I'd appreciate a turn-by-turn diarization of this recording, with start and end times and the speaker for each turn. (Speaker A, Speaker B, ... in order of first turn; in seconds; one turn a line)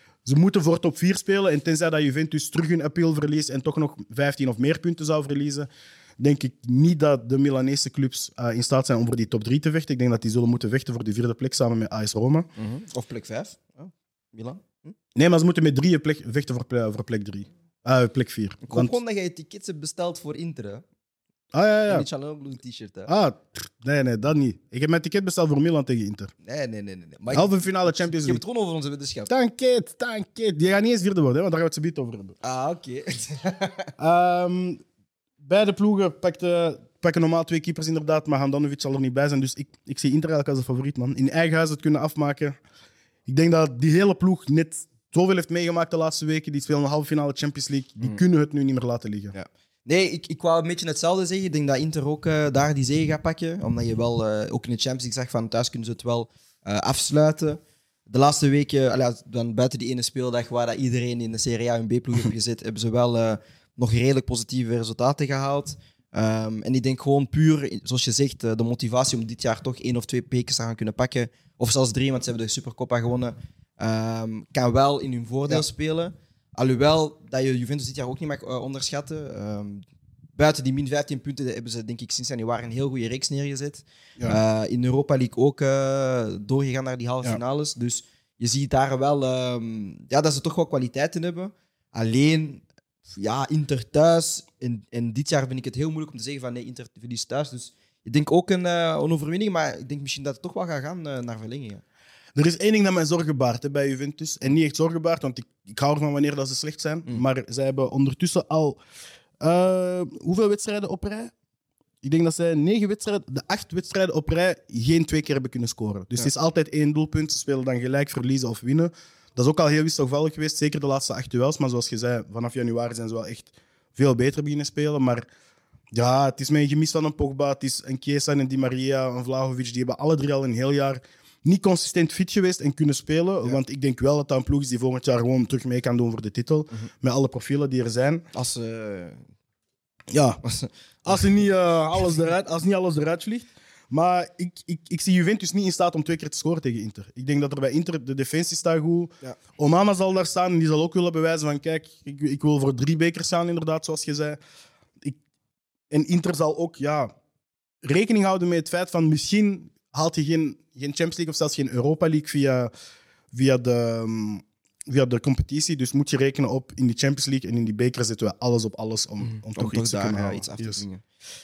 Speaker A: 0.2-5.7
Speaker A: 6.2-12.5
Speaker B: 12.6-14.9
Speaker A: 15.2-18.9
Speaker B: 18.6-20.8
Speaker A: 21.5-22.1
Speaker B: 21.9-23.1
Speaker A: 23.1-26.3
Speaker B: 26.4-29.3
Speaker A: 27.3-28.4
Speaker A: 29.3-32.4
Speaker B: 32.4-33.9
Speaker A: 34.0-34.8
Speaker A: 35.4-42.6
Speaker A: 43.3-49.4
Speaker B: 49.3-79.8
Speaker B: 80.4-101.8
Speaker A: 102.4-108.8
Speaker A: 109.4-111.3
Speaker A: 112.0-125.3
Speaker A: 125.9-138.3
Speaker B: 138.3-139.2
Speaker A: 140.1-140.4
Speaker B: 140.4-141.3
Speaker A: 141.1-154.4
Speaker A: 155.9-157.1
Speaker A: 157.8-162.7
Speaker A: 163.3-170.8
Speaker B: 169.2-171.0